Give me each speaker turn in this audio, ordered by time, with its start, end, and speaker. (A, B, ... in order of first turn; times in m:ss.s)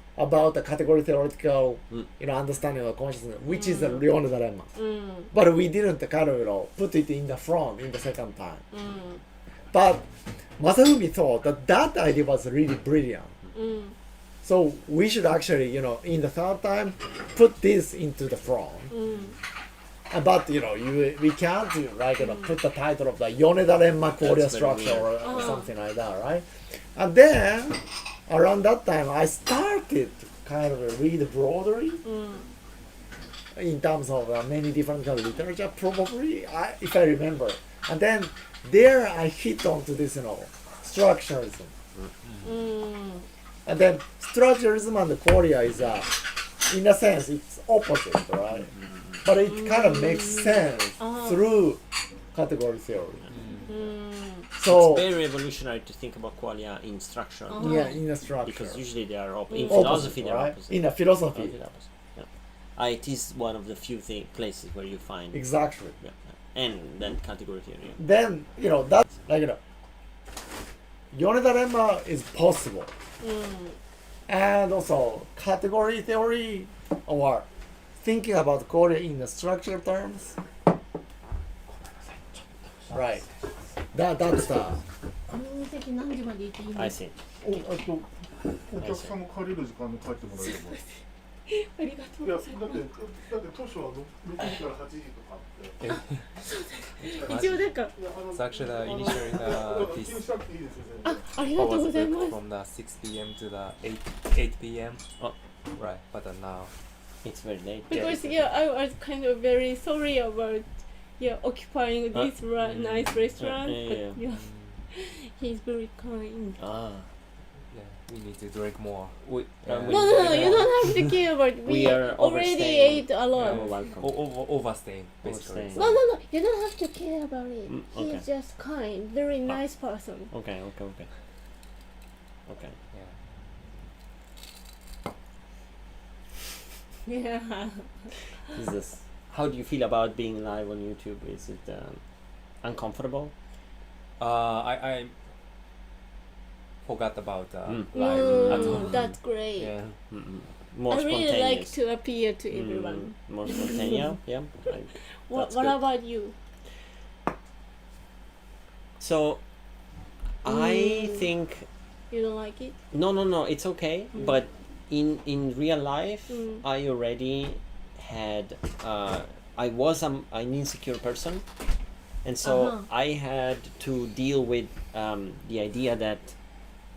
0:00.2-0:04.7 A
0:03.5-0:04.0 B
0:04.7-0:05.3 B
0:05.3-0:08.6 A
0:08.7-0:09.2 B
0:09.7-0:10.0 A
0:10.6-0:13.3 A
0:13.5-0:13.9 B
0:14.4-0:18.9 A
0:18.9-0:19.4 B
0:20.1-0:32.0 A
0:22.2-0:22.5 B
0:24.2-0:25.6 C
0:25.2-0:25.6 B
0:32.0-0:32.5 B
0:33.5-0:41.7 A
0:42.4-0:43.3 B
0:43.6-0:46.1 A
0:46.7-0:48.7 A
0:48.5-0:49.2 C
0:49.2-0:51.8 A
0:49.4-0:51.5 B
0:52.3-0:53.2 A
0:53.3-0:53.7 D
0:53.7-0:54.5 B
0:54.5-0:55.1 A
0:54.6-0:57.8 C
0:57.5-0:57.9 B
0:57.6-0:58.8 A
0:58.4-1:05.5 C
0:59.7-1:01.6 A
1:05.3-1:06.0 A
1:06.0-1:08.0 C
1:08.0-1:09.6 A
1:11.1-1:12.9 A
1:13.2-1:13.8 B
1:14.3-1:17.4 A
1:18.0-1:20.4 A
1:22.9-1:23.2 A
1:23.9-1:24.8 A
1:25.3-1:26.9 B
1:26.7-1:27.2 C
1:27.4-1:28.1 E
1:28.7-1:30.8 E
1:28.8-1:29.2 C
1:30.4-1:32.8 B
1:32.2-1:35.8 E
1:35.8-1:36.3 D
1:35.9-1:37.9 B
1:37.0-1:41.4 E
1:37.1-1:37.8 D
1:38.3-1:40.2 D
1:41.0-1:42.4 B
1:41.4-1:45.0 D
1:45.7-1:46.7 D
1:47.2-1:48.4 C
1:47.9-1:56.6 B
1:47.9-1:48.4 D
1:52.6-1:53.4 D
1:53.4-1:54.2 C
1:54.2-1:54.8 D
1:56.6-1:57.1 C
1:57.7-2:01.1 D
1:59.2-2:00.7 C
1:59.9-2:03.9 B
2:01.6-2:04.2 C
2:03.4-2:05.9 D
2:05.2-2:06.0 C
2:05.8-2:10.3 B
2:07.7-2:08.2 C
2:10.3-2:11.1 C
2:12.5-2:12.7 C
2:17.0-2:17.9 B
2:18.5-2:22.0 C
2:22.6-2:23.3 C
2:24.2-2:25.1 D
2:26.8-2:29.0 D
2:27.6-2:29.2 C
2:27.9-2:29.8 B
2:29.6-2:29.9 D
2:30.1-2:31.8 C
2:30.9-2:33.9 B
2:32.5-2:35.8 C
2:35.3-2:36.4 B
2:39.0-2:39.4 C
2:40.4-2:41.7 C
2:40.5-2:41.2 B
2:42.1-2:42.7 B
2:42.9-2:51.4 C
2:46.3-2:46.6 B
2:52.2-2:56.3 C
2:52.4-2:52.8 B